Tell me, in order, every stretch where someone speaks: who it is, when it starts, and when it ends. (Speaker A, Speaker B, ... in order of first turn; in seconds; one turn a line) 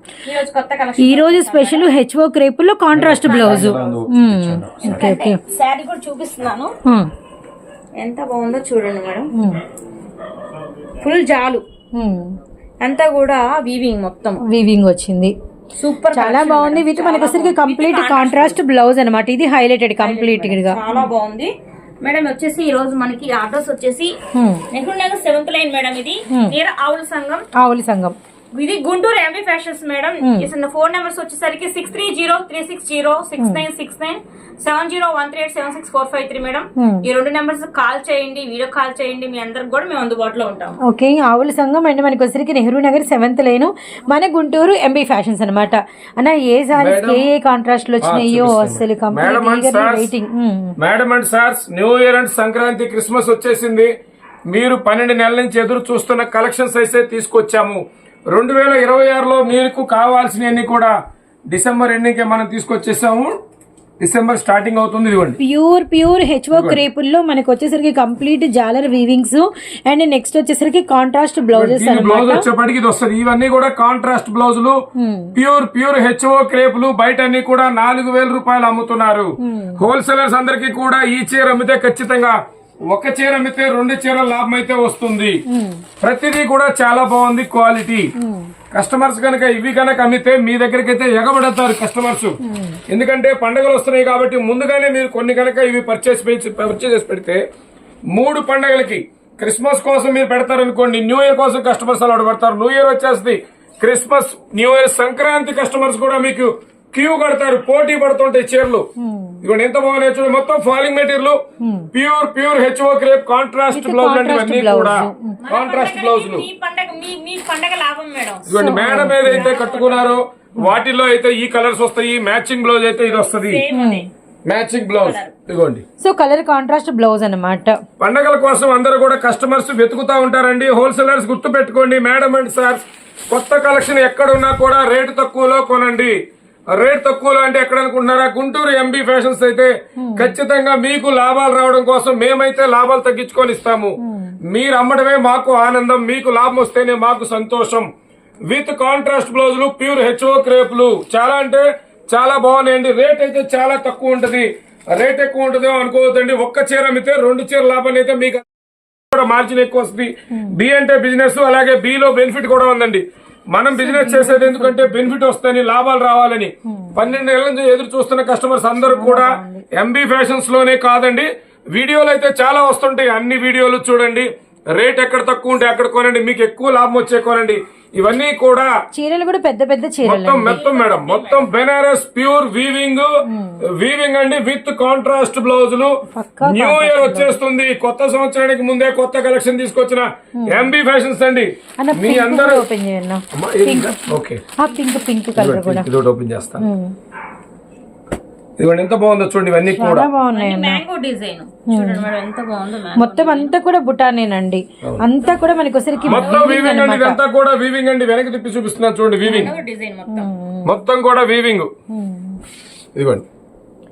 Speaker A: 0.2-1.9
Speaker B: 1.0-5.4
Speaker C: 2.9-5.1
Speaker A: 3.2-3.8
Speaker A: 4.8-6.7
Speaker A: 8.0-9.3
Speaker B: 9.3-9.6
Speaker A: 11.0-11.6
Speaker B: 11.9-12.3
Speaker A: 12.8-14.4
Speaker B: 14.5-15.3
Speaker A: 15.8-18.6
Speaker B: 16.1-21.0
Speaker A: 20.0-21.5
Speaker A: 22.0-24.1
Speaker B: 24.3-24.6
Speaker A: 24.7-27.4
Speaker B: 27.6-28.1
Speaker A: 28.5-40.8
Speaker B: 30.2-30.5
Speaker B: 33.4-33.6
Speaker B: 36.8-37.1
Speaker B: 40.9-50.8
Speaker C: 46.8-47.2
Speaker C: 48.0-50.1
Speaker C: 50.8-53.9
Speaker C: 54.5-60.9
Speaker C: 61.5-63.3
Speaker C: 64.0-65.4
Speaker B: 65.4-72.5
Speaker C: 66.5-66.8
Speaker C: 71.5-74.8
Speaker B: 75.0-75.3
Speaker C: 75.3-82.4
Speaker B: 79.4-79.8
Speaker C: 82.9-85.4
Speaker B: 85.5-85.8
Speaker C: 86.0-88.1
Speaker B: 88.2-88.5
Speaker C: 88.7-92.4
Speaker B: 92.4-92.8
Speaker C: 92.9-97.4
Speaker C: 98.1-108.8
Speaker B: 109.0-109.4
Speaker C: 109.4-111.4
Speaker B: 111.6-111.9
Speaker C: 111.9-116.5
Speaker B: 113.7-115.4
Speaker A: 115.4-118.6
Speaker C: 118.5-123.6
Speaker B: 118.5-119.5
Speaker A: 119.2-120.2
Speaker A: 123.1-124.1
Speaker B: 123.7-124.0
Speaker C: 124.5-125.8
Speaker A: 124.9-125.3
Speaker B: 126.0-127.7
Speaker C: 128.0-136.2
Speaker C: 136.7-143.9
Speaker B: 140.0-140.3
Speaker B: 144.0-144.4
Speaker C: 144.5-147.9
Speaker C: 148.5-158.4
Speaker C: 159.1-178.7
Speaker B: 160.3-160.6
Speaker B: 163.7-165.1
Speaker B: 166.7-167.1
Speaker B: 168.8-169.6
Speaker B: 178.9-180.7
Speaker C: 180.0-183.1
Speaker A: 180.4-181.5
Speaker B: 183.3-183.6
Speaker C: 183.6-192.6
Speaker B: 186.1-187.3
Speaker B: 190.4-190.7
Speaker B: 191.8-195.9
Speaker C: 193.3-194.4
Speaker C: 195.3-196.7
Speaker B: 196.6-196.9
Speaker C: 198.6-200.1
Speaker B: 199.7-200.8
Speaker A: 200.3-203.5
Speaker B: 201.7-202.1
Speaker B: 202.9-207.2
Speaker A: 206.0-206.5
Speaker C: 206.1-209.5
Speaker B: 209.2-209.5
Speaker A: 209.3-210.3
Speaker B: 210.1-210.7
Speaker C: 210.6-211.7
Speaker B: 211.9-212.4
Speaker C: 212.9-213.2